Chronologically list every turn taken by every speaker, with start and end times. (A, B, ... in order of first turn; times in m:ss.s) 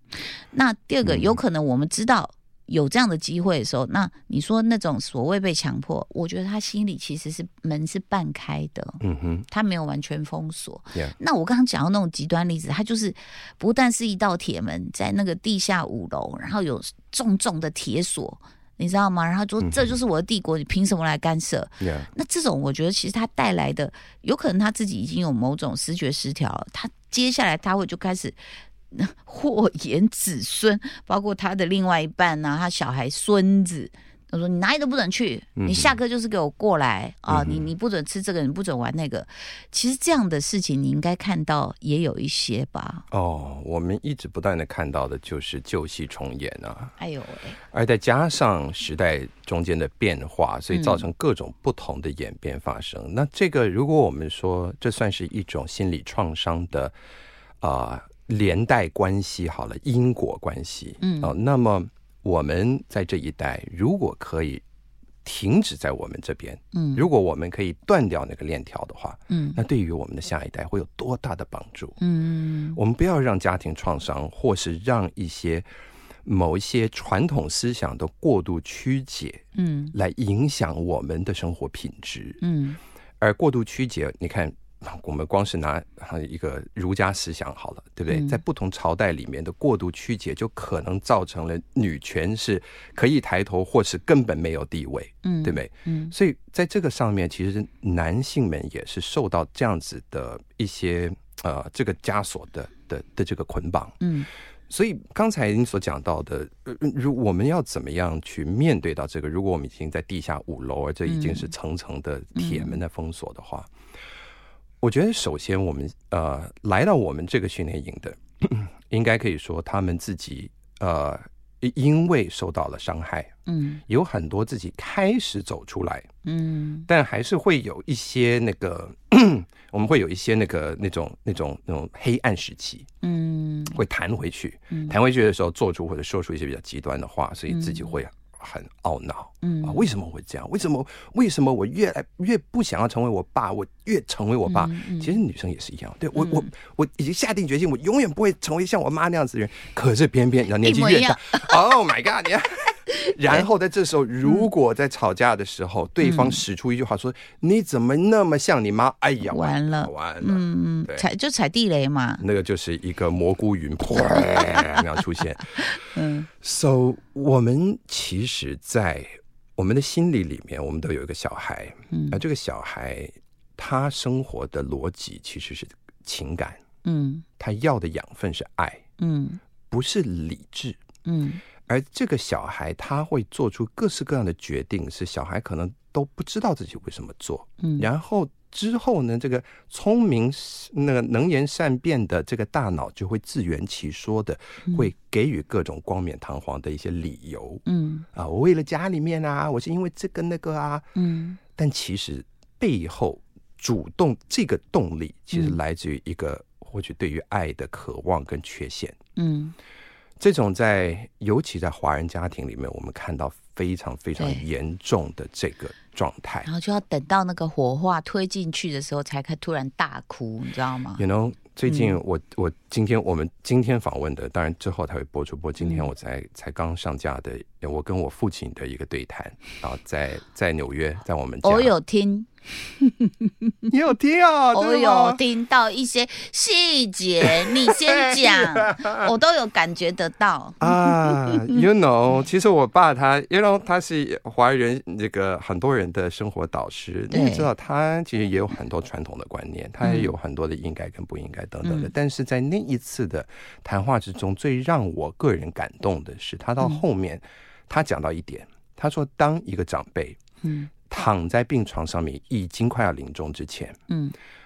0:00.5-0:28.4 A
0:01.0-0:01.4 B
0:09.0-0:09.4 B
0:19.6-0:19.9 B
0:21.8-0:22.1 B
0:28.9-0:43.0 A
0:35.6-0:36.0 B
0:37.3-0:37.7 B
0:43.1-0:46.9 B
0:47.0-0:47.6 A
0:47.7-0:56.9 B
0:50.7-0:51.0 A
0:57.6-1:04.6 B
1:01.0-1:01.3 A
1:05.2-1:12.0 B
1:06.7-1:07.0 A
1:09.3-1:09.6 A
1:12.0-1:12.8 A
1:12.8-1:15.6 B
1:16.2-1:22.4 B
1:19.6-1:19.9 A
1:22.4-1:22.8 A
1:23.2-1:44.0 B
1:28.1-1:28.4 A
1:35.2-1:36.1 A
1:44.0-1:44.3 A
1:44.7-1:53.7 B
1:51.1-1:51.5 A
1:52.3-1:52.8 A
1:54.8-2:03.3 B
2:03.5-2:03.8 A
2:03.9-2:06.1 B
2:06.2-2:06.9 A
2:06.9-2:12.9 B
2:13.0-2:13.8 A
2:13.7-2:41.0 B
2:14.7-2:15.0 A
2:17.5-2:18.0 A
2:19.4-2:19.9 A
2:24.4-2:25.2 A
2:26.1-2:26.5 A
2:30.6-2:31.7 A
2:32.9-2:33.4 A
2:36.0-2:36.4 A
2:39.2-2:42.2 A
2:42.2-2:56.6 B
2:43.9-2:44.8 A
2:45.6-2:46.3 A
2:51.9-2:52.2 A
2:56.8-2:57.2 A
2:57.4-2:58.8 B
2:59.0-2:59.4 A
2:59.7-3:00.8 B
3:01.0-3:01.4 A
3:01.7-3:17.6 B
3:07.6-3:07.9 A
3:17.6-3:18.0 A
3:18.1-3:20.9 B
3:21.0-3:21.4 A
3:21.5-3:29.0 B
3:29.2-3:29.5 A
3:30.2-3:36.5 B
3:34.2-3:34.4 A
3:36.4-3:41.0 A
3:41.0-3:51.7 B
3:41.7-3:42.0 A
3:45.6-3:45.9 A
3:51.4-3:53.7 A
3:53.7-3:55.2 B
3:54.5-4:01.6 A
3:57.2-3:59.1 B
4:00.6-4:20.2 B
4:07.1-4:07.5 A
4:09.8-4:10.1 A
4:11.6-4:11.9 A
4:20.4-4:20.7 A
4:20.9-4:23.8 B
4:23.9-4:24.1 A